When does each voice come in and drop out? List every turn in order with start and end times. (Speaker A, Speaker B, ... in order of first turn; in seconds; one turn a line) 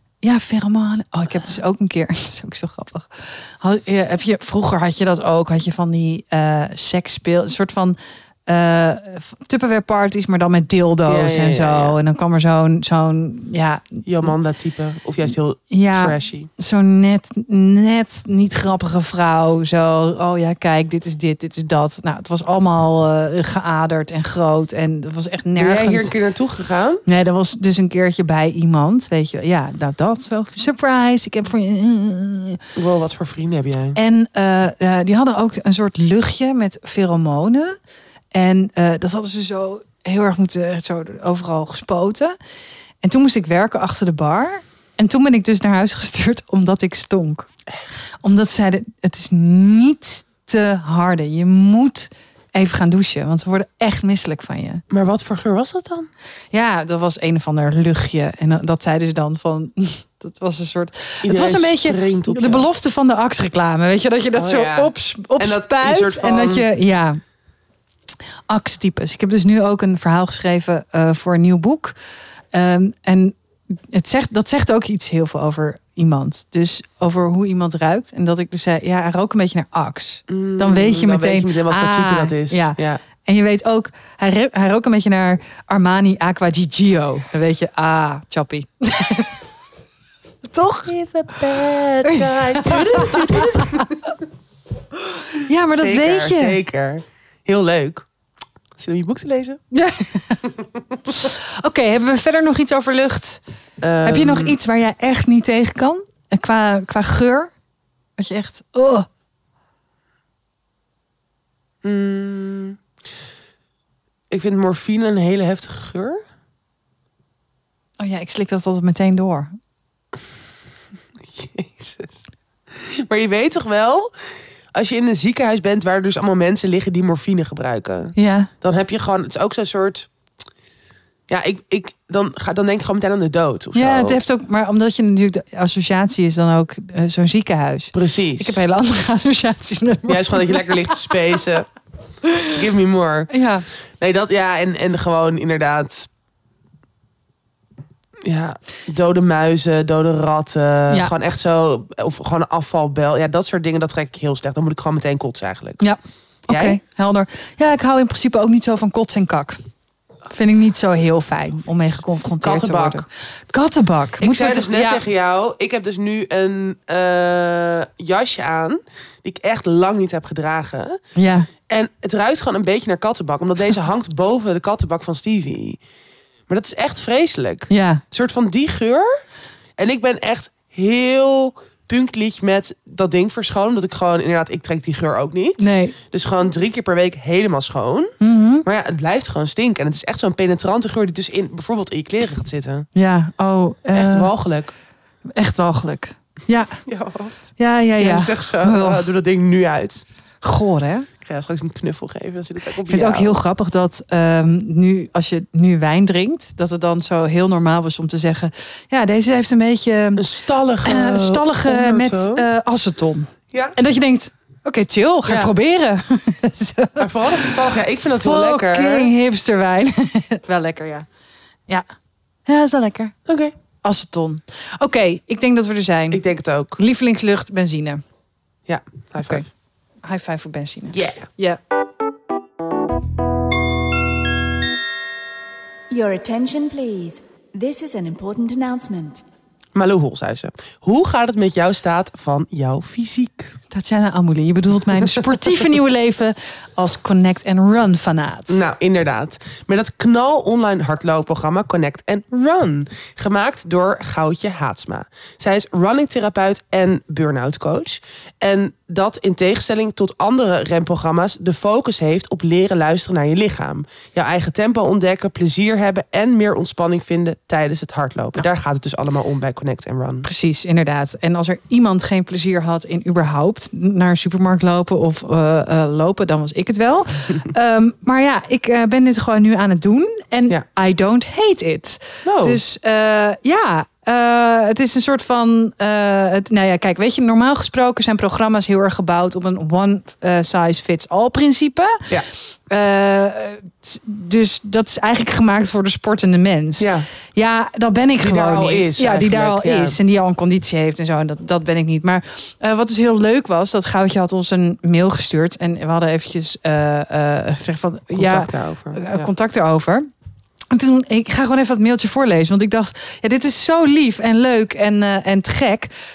Speaker A: 0.2-14.3
Speaker B: 11.1-12.0
Speaker B: 14.0-16.5
Speaker A: 15.7-26.1
Speaker B: 25.6-27.0
Speaker A: 27.1-32.6
Speaker B: 32.7-34.0
Speaker A: 33.9-37.8
Speaker A: 38.3-42.4
Speaker A: 43.0-47.5
Speaker A: 48.2-54.8
Speaker B: 54.9-56.1
Speaker A: 56.5-67.2
Speaker B: 61.2-62.7
Speaker B: 64.3-66.7
Speaker A: 68.5-72.0
Speaker A: 72.5-89.4
Speaker B: 80.3-83.0
Speaker A: 90.5-90.9
Speaker B: 90.8-94.0
Speaker A: 92.0-93.8
Speaker A: 95.5-96.6
Speaker B: 95.7-98.1
Speaker B: 98.8-99.6
Speaker A: 99.7-100.5
Speaker A: 101.1-103.4
Speaker B: 103.8-104.5
Speaker A: 104.0-107.5
Speaker A: 108.2-109.1
Speaker B: 111.8-112.8
Speaker B: 114.3-116.2
Speaker A: 118.0-119.5
Speaker B: 121.3-124.1
Speaker B: 124.7-130.1
Speaker A: 128.2-128.5
Speaker B: 131.3-134.2
Speaker A: 133.7-141.3
Speaker B: 137.9-138.6
Speaker B: 140.1-141.7
Speaker A: 142.2-142.5
Speaker B: 142.5-143.3
Speaker A: 143.3-143.7
Speaker B: 144.0-146.1
Speaker B: 148.2-155.8
Speaker A: 155.8-159.6
Speaker B: 156.5-156.8
Speaker A: 160.3-165.0
Speaker B: 162.4-163.0
Speaker B: 164.2-171.0
Speaker A: 171.1-171.5
Speaker B: 171.7-175.8
Speaker B: 176.5-179.1
Speaker A: 177.7-178.0
Speaker B: 179.8-188.1
Speaker A: 185.6-185.9
Speaker A: 188.2-188.7
Speaker B: 188.6-192.9
Speaker A: 192.9-194.3
Speaker B: 193.9-194.7
Speaker A: 195.3-196.8
Speaker B: 196.8-200.0
Speaker A: 197.6-199.0
Speaker A: 200.4-201.1
Speaker B: 201.2-203.3
Speaker A: 202.8-210.3
Speaker B: 210.2-212.4
Speaker A: 210.8-221.1
Speaker B: 213.5-213.8
Speaker B: 215.2-215.5
Speaker B: 217.0-219.1
Speaker A: 222.4-223.1
Speaker B: 223.3-223.5
Speaker A: 223.8-226.2
Speaker B: 226.1-226.8
Speaker A: 226.8-228.0
Speaker B: 228.7-229.4
Speaker A: 230.0-231.6
Speaker B: 230.9-231.3
Speaker C: 235.9-239.2
Speaker B: 239.7-243.5
Speaker A: 243.7-248.6
Speaker B: 248.5-270.3
Speaker A: 270.2-292.1
Speaker B: 282.2-282.6
Speaker A: 292.7-310.1
Speaker B: 296.8-297.1
Speaker B: 298.2-300.0
Speaker B: 308.1-309.3
Speaker A: 310.7-315.9